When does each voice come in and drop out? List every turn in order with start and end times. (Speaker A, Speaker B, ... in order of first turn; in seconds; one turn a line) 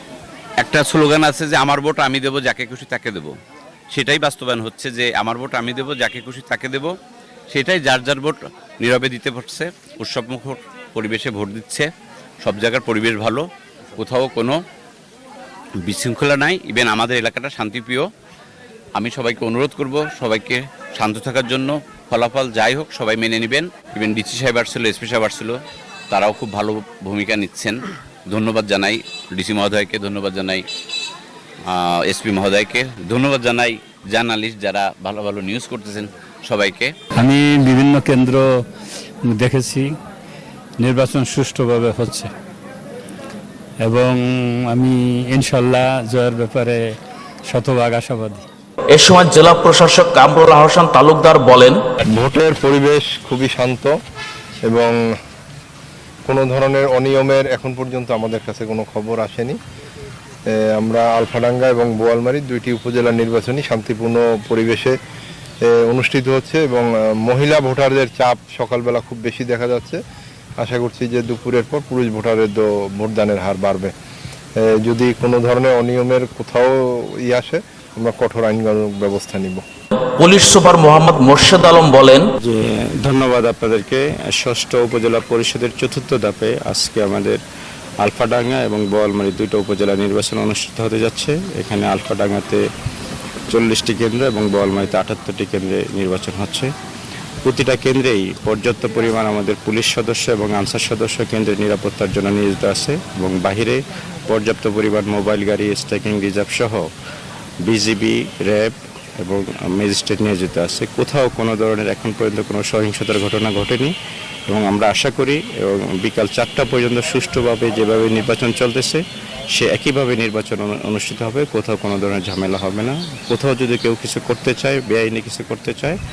Speaker A: 0.6-3.3
Speaker A: 3.9-6.9
Speaker A: 7.5-11.9
Speaker A: 12.4-13.4
Speaker A: 14.0-14.6
Speaker A: 15.8-18.1
Speaker A: 18.9-25.6
Speaker A: 26.1-30.6
Speaker A: 31.6-36.9
Speaker B: 37.2-38.5
Speaker B: 39.3-39.9
Speaker B: 40.8-42.3
Speaker B: 43.8-46.8
Speaker B: 47.5-48.4
Speaker C: 48.9-51.8
Speaker D: 52.1-53.9
Speaker D: 54.7-55.0
Speaker D: 56.2-59.6
Speaker D: 60.8-65.0
Speaker D: 65.7-70.0
Speaker D: 70.6-73.9
Speaker D: 74.6-79.6
Speaker C: 80.1-82.3
Speaker E: 82.4-87.4
Speaker E: 88.0-92.6
Speaker E: 93.5-96.7
Speaker E: 97.4-106.9
Speaker E: 107.6-113.9
Speaker E: 114.5-126.0